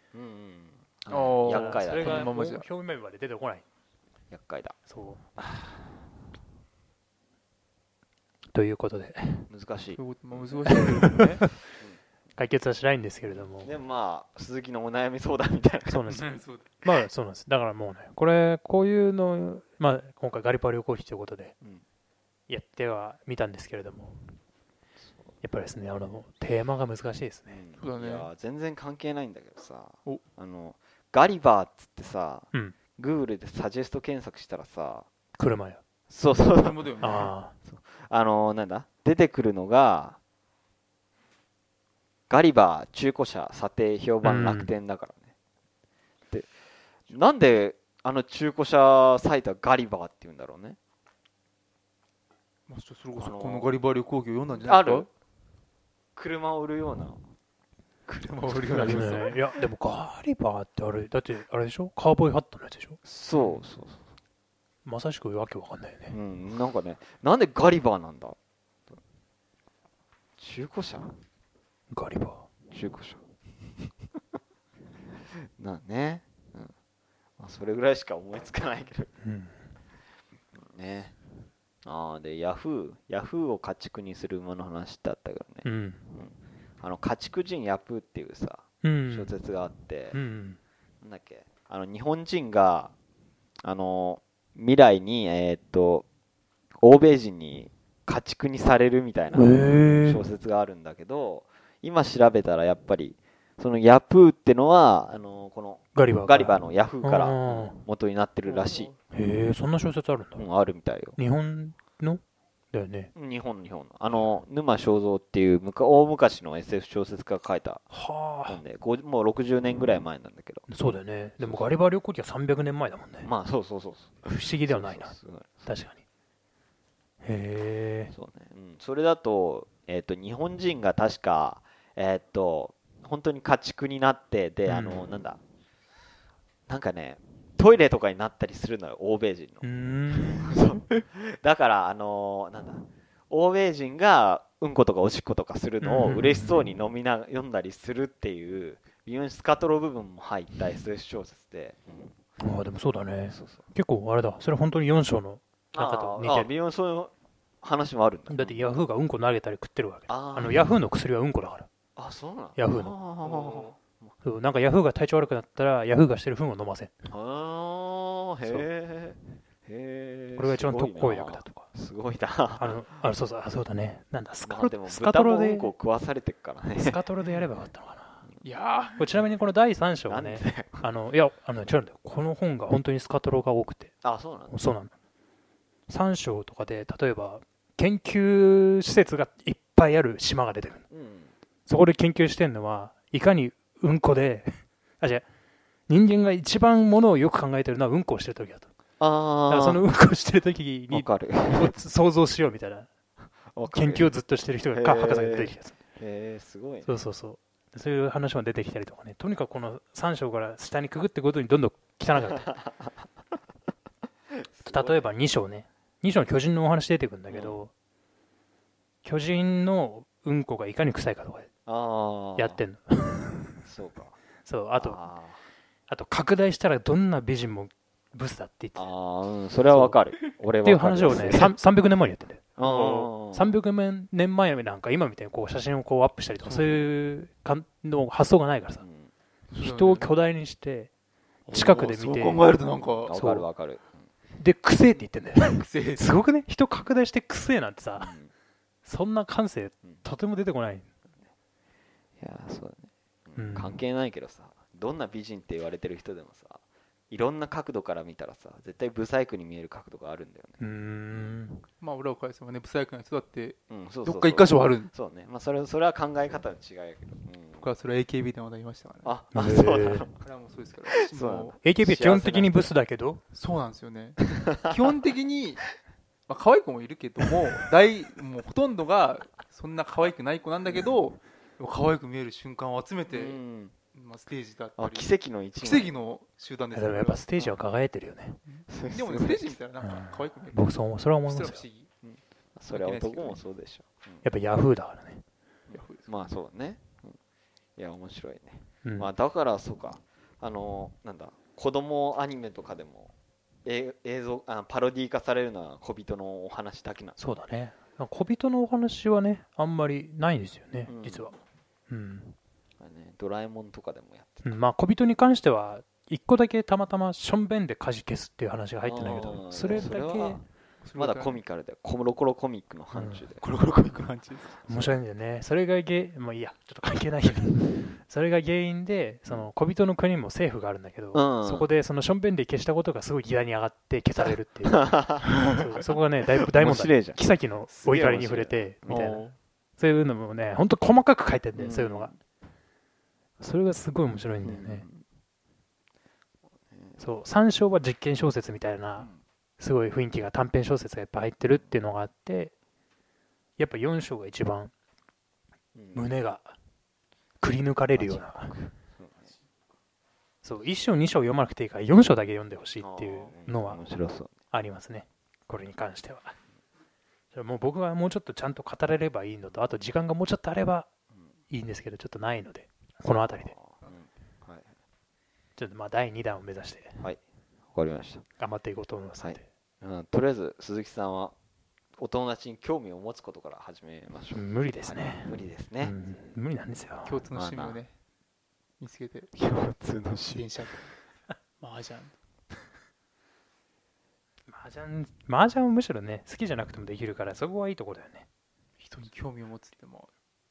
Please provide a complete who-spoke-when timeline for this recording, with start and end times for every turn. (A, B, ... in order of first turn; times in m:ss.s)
0:00.1-0:02.3 A
0:01.1-0:02.6 B
0:01.4-0:03.6 C
0:04.3-0:04.8 A
0:04.8-0:05.2 C
0:05.4-0:05.7 A
0:08.5-0:09.4 C
0:09.5-0:11.1 A
0:10.0-0:11.4 B
0:10.8-0:11.5 C
0:12.4-0:13.7 C
0:13.3-0:16.3 A
0:15.8-0:21.5 C
0:16.1-0:16.6 B
0:22.5-0:24.2 C
0:25.4-0:27.6 C
0:27.5-0:35.1 A
0:27.8-0:28.3 B
0:35.4-0:35.8 C
0:36.1-0:40.2 A
0:36.5-0:37.3 B
0:37.0-0:37.5 C
0:42.3-0:45.3 A
0:44.2-0:44.7 C
0:47.1-0:50.8 A
0:52.7-0:55.1 B
0:53.2-0:53.7 A
0:54.6-0:55.1 A
0:56.2-0:57.2 A
0:58.1-0:59.4 B
0:58.2-0:59.2 A
0:58.8-1:03.0 C
1:03.0-1:04.0 A
1:03.3-1:03.6 B
1:04.8-1:06.2 C
1:06.1-1:08.4 A
1:10.4-1:11.1 A
1:11.9-1:12.5 C
1:12.7-1:13.2 A
1:15.6-1:16.7 A
1:17.4-1:19.1 A
1:19.2-1:19.6 C
1:20.5-1:21.1 A
1:21.8-1:30.2 A
1:25.6-1:26.0 C
1:28.8-1:29.3 C
1:30.1-1:30.6 C
1:31.0-1:32.9 A
1:33.6-1:36.0 A
1:36.8-1:48.9 A
1:39.3-1:40.3 C
1:45.9-1:47.8 C
1:48.4-1:49.0 B
1:49.1-1:50.4 C
1:50.4-1:51.2 A
1:51.2-1:53.1 C
1:53.1-1:57.9 A
1:54.1-1:54.4 C
1:57.9-1:58.6 C
1:58.4-2:00.7 A
2:00.7-2:03.3 C
2:01.4-2:01.8 A
2:03.2-2:05.7 A
2:04.2-2:06.0 C
2:07.2-2:08.1 C
2:08.1-2:15.4 A
2:14.6-2:15.2 C
2:16.7-2:32.1 A
2:19.6-2:20.6 C
2:25.8-2:26.7 C
2:32.4-2:36.5 C
2:33.2-2:33.6 A
2:35.7-2:38.6 A
2:38.3-2:41.7 C
2:40.1-2:40.7 A
2:42.0-2:44.1 A
2:42.6-2:43.0 C
2:43.2-2:43.7 B
2:44.2-2:46.9 C
2:47.1-2:52.8 A
2:50.3-2:51.7 C
2:52.6-2:55.7 C
2:54.4-2:57.0 A
2:56.8-2:58.3 C
2:58.4-2:59.1 B
2:59.0-3:04.9 C
3:00.1-3:00.9 A
3:04.0-3:04.5 A
3:05.9-3:10.8 C
3:10.9-3:11.3 A
3:11.6-3:15.2 C
3:15.9-3:18.7 C
3:19.0-3:19.8 A
3:19.5-3:22.9 C
3:20.9-3:21.7 A
3:23.5-3:24.1 A
3:23.7-3:25.8 C
3:24.7-3:27.0 A
3:26.8-3:32.5 C
3:32.3-3:32.9 A
3:34.4-3:35.1 A
3:34.6-3:37.7 C
3:37.3-3:37.6 A
3:39.0-3:41.5 C
3:41.6-3:42.6 A
3:42.4-3:43.6 C
3:43.6-3:44.2 A
3:44.4-3:45.0 C
3:44.8-3:45.4 A
3:45.9-3:48.9 C
3:48.7-3:51.5 A
3:49.6-3:50.0 C
3:50.6-3:58.8 C
3:52.6-3:53.5 A
3:56.4-3:56.9 B
3:58.8-3:59.1 A
3:59.5-4:00.1 B
3:59.6-4:00.9 C
4:01.4-4:03.1 B
4:01.5-4:02.5 C
4:03.0-4:04.1 A
4:03.1-4:03.5 C
4:04.4-4:08.1 C
4:05.4-4:06.2 B
4:08.0-4:08.3 A
4:08.8-4:10.8 C
4:12.2-4:20.6 A
4:13.4-4:13.8 C
4:20.6-4:21.6 C
4:21.8-4:24.9 B
4:23.7-4:27.7 A
4:27.6-4:29.1 B
4:29.0-4:30.2 A
4:29.3-4:30.1 C
4:30.2-4:31.6 B
4:31.0-4:32.7 A
4:31.6-4:33.2 C
4:33.3-4:35.6 B
4:34.3-4:34.8 A
4:36.3-4:43.4 B
4:43.1-4:43.7 A
4:43.9-4:47.3 B
4:44.8-4:45.9 A
4:46.7-4:48.4 C
4:47.4-4:47.6 A
4:48.5-4:50.7 B
4:48.7-4:49.5 A
4:49.8-4:51.6 C
4:51.3-4:51.9 B
4:52.0-4:54.2 A
4:52.7-4:53.4 B
4:54.2-4:55.2 C
4:55.7-4:57.2 A
4:55.7-4:56.1 B
4:57.8-5:03.1 A
4:58.8-4:59.1 C
5:03.6-5:07.2 A
5:07.2-5:11.4 C
5:10.9-5:11.3 A
5:11.9-5:12.4 C
5:12.8-5:14.6 A
5:14.4-5:20.4 C
5:18.8-5:20.4 A
5:20.8-5:21.4 B
5:21.0-5:23.4 A
5:22.9-5:23.2 C
5:23.4-5:24.7 B
5:24.7-5:42.1 C
5:31.1-5:31.7 A
5:34.6-5:35.4 A
5:35.4-5:35.7 B
5:36.4-5:39.2 A
5:38.9-5:39.4 B
5:41.5-5:42.1 A
5:43.4-5:44.8 C
5:44.4-5:45.0 A
5:46.7-5:47.0 A
5:47.0-5:52.5 C
5:53.6-5:54.7 C
5:55.7-5:56.1 A
5:55.9-5:56.6 C
5:57.4-5:58.6 C
5:57.9-5:59.3 A
6:00.4-6:03.8 C
6:02.8-6:04.3 A
6:04.5-6:06.3 C
6:07.3-6:10.9 C
6:11.5-6:13.6 C
6:13.4-6:14.7 A
6:15.6-6:17.1 C
6:17.7-6:18.2 A
6:18.4-6:19.4 C
6:19.2-6:21.3 A
6:22.0-6:26.0 A
6:24.3-6:27.2 C
6:27.0-6:27.9 B
6:27.3-6:27.8 A
6:28.8-6:29.3 B
6:29.3-6:30.6 A
6:30.3-6:30.9 B
6:31.6-6:32.1 B
6:34.5-6:38.2 C
6:38.8-6:40.1 B